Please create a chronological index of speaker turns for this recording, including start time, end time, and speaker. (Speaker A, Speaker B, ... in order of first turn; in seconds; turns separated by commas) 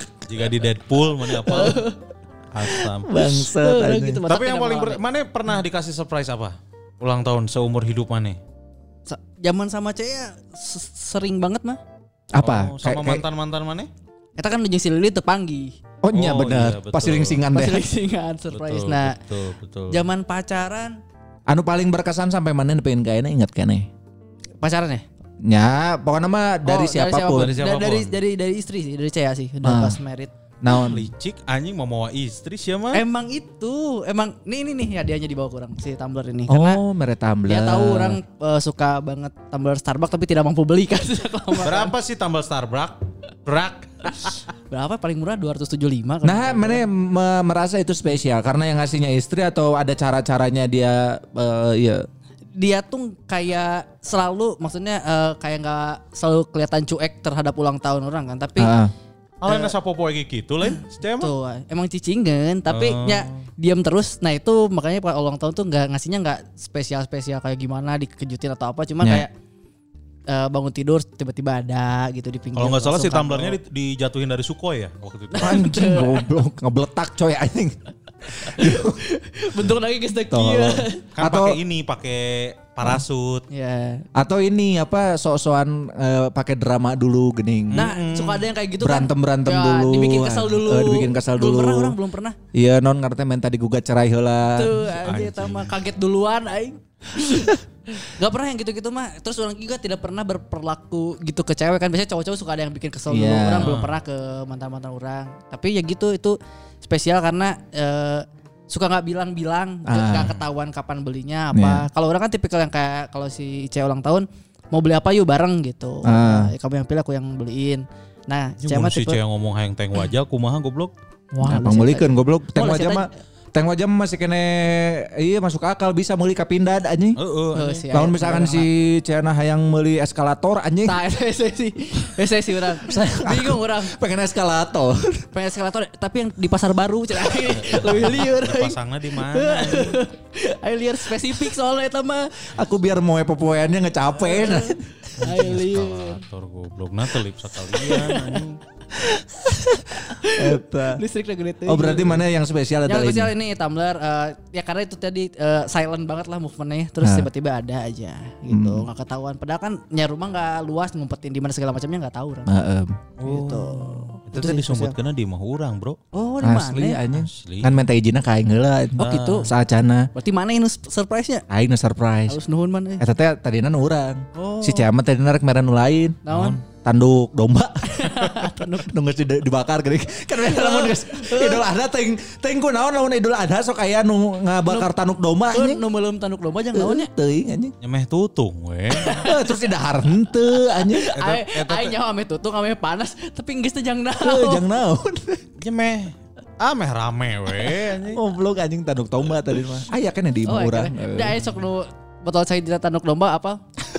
Speaker A: 0.3-1.8, Speaker B: 1.5-1.9, Speaker A: 2.5-3.1, Speaker C: 3.0-4.2, Speaker B: 3.6-5.0, Speaker A: 4.3-8.4, Speaker B: 9.1-11.8, Speaker C: 12.3-13.2, Speaker A: 12.4-13.9, Speaker B: 14.4-15.7, Speaker C: 16.0-17.8, Speaker A: 16.1-17.4, Speaker B: 17.5-19.1, Speaker A: 18.5-20.0, Speaker B: 19.9-21.0, Speaker C: 21.5-23.9, Speaker B: 24.6-25.0, Speaker C: 25.4-27.5, Speaker B: 26.7-30.3, Speaker A: 27.3-28.1, Speaker C: 29.6-30.0, Speaker C: 30.6-31.1, Speaker A: 30.7-33.0, Speaker B: 32.9-36.8, Speaker C: 36.5-38.2, Speaker B: 37.5-41.9, Speaker A: 41.6-44.4, Speaker B: 44.7-46.8, Speaker C: 46.2-52.0, Speaker B: 52.5-58.7, Speaker C: 58.6-58.9, Speaker A: 59.4-61.3, Speaker B: 59.5-59.7, Speaker B: 60.7-69.3, Speaker A: 62.7-63.5, Speaker C: 69.0-69.2, Speaker B: 70.3-73.6, Speaker A: 72.5-75.6, Speaker B: 75.3-76.2, Speaker C: 75.4-77.8, Speaker C: 78.3-79.0, Speaker B: 78.5-81.0, Speaker C: 80.3-81.6, Speaker A: 81.2-83.4, Speaker B: 83.5-84.0, Speaker C: 84.2-87.9, Speaker A: 87.7-88.5, Speaker B: 87.7-92.3, Speaker C: 88.8-91.9, Speaker C: 92.5-94.8, Speaker B: 94.5-119.2, Speaker A: 94.9-95.7, Speaker C: 103.1-103.8, Speaker A: 103.6-103.9, Speaker C: 109.9-110.3, Speaker C: 111.5-111.8, Speaker C: 116.0-116.5, Speaker A: 118.6-120.9, Speaker B: 121.3-123.1, Speaker C: 121.4-127.2, Speaker A: 127.2-127.8, Speaker B: 127.5-128.7, Speaker C: 127.9-131.0, Speaker B: 130.8-133.9, Speaker C: 132.9-135.2, Speaker B: 135.3-138.7, Speaker A: 137.6-140.0, Speaker B: 139.3-142.3, Speaker C: 142.5-144.8, Speaker B: 144.2-146.2, Speaker A: 145.2-148.5, Speaker B: 147.8-148.4, Speaker B: 149.5-152.2, Speaker C: 150.3-151.0, Speaker C: 151.7-153.3, Speaker B: 152.8-162.5, Speaker C: 157.0-157.3, Speaker C: 158.5-158.9, Speaker C: 162.5-163.0, Speaker A: 163.2-166.0, Speaker B: 163.2-164.9, Speaker B: 166.1-167.0, Speaker C: 166.4-170.1, Speaker A: 167.1-167.7, Speaker A: 169.0-169.4, Speaker B: 169.0-169.4, Speaker B: 170.1-171.4, Speaker C: 171.5-172.4, Speaker B: 172.3-173.0, Speaker C: 173.0-185.8, Speaker B: 174.3-174.9, Speaker B: 176.2-176.6, Speaker A: 176.3-176.6, Speaker B: 177.9-178.9, Speaker B: 180.4-181.6, Speaker B: 185.5-187.1, Speaker C: 186.7-187.7, Speaker A: 187.8-189.3, Speaker B: 189.0-189.5, Speaker C: 189.2-191.1, Speaker B: 190.7-194.6, Speaker A: 191.2-191.9, Speaker C: 194.2-195.4, Speaker A: 195.6-198.2, Speaker C: 198.1-201.4, Speaker B: 200.5-203.6